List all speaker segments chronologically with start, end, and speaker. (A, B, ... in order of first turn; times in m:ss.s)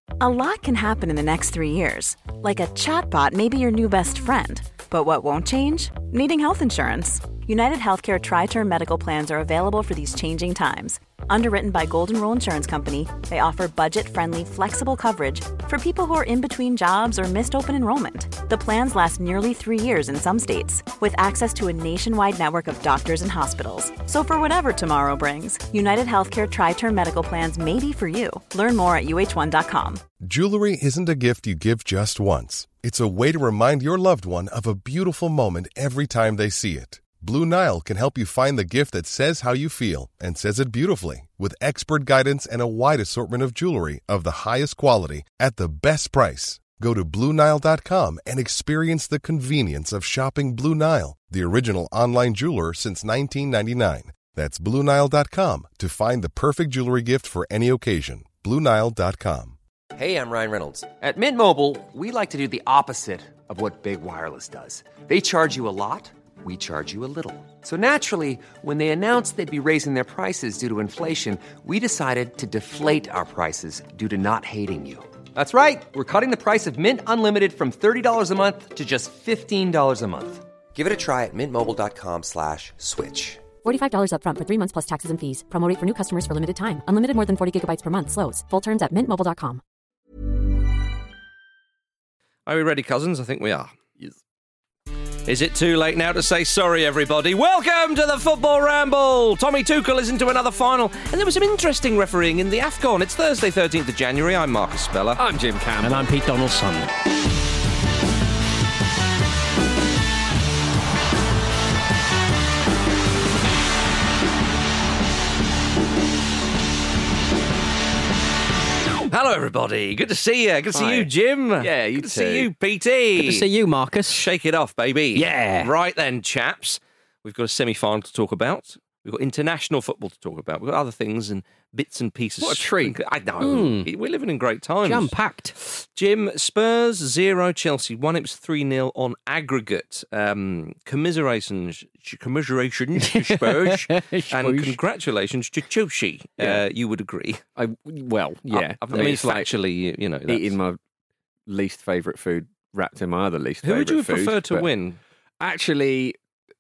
0:00.2-0:30.0 A
0:30.2-0:59.6 B
0:59.9-1:23.5 C
1:23.6-1:29.6 D
1:32.4-1:33.7 E
1:35.2-1:45.2 E
1:45.1-1:46.0 F
1:45.8-1:46.9 G
1:59.1-2:03.4 E
2:00.7-2:02.5 F
2:03.2-2:04.2 G
2:04.1-2:27.4 E
2:05.1-2:05.7 G
2:12.4-2:13.0 F
2:13.4-2:13.9 G
2:14.8-2:15.5 G
2:23.0-2:24.7 G
2:27.6-2:29.5 F
2:28.5-2:30.6 E
2:30.3-2:30.8 F
2:31.5-2:34.7 F
2:33.6-2:35.0 E
2:35.4-2:36.2 F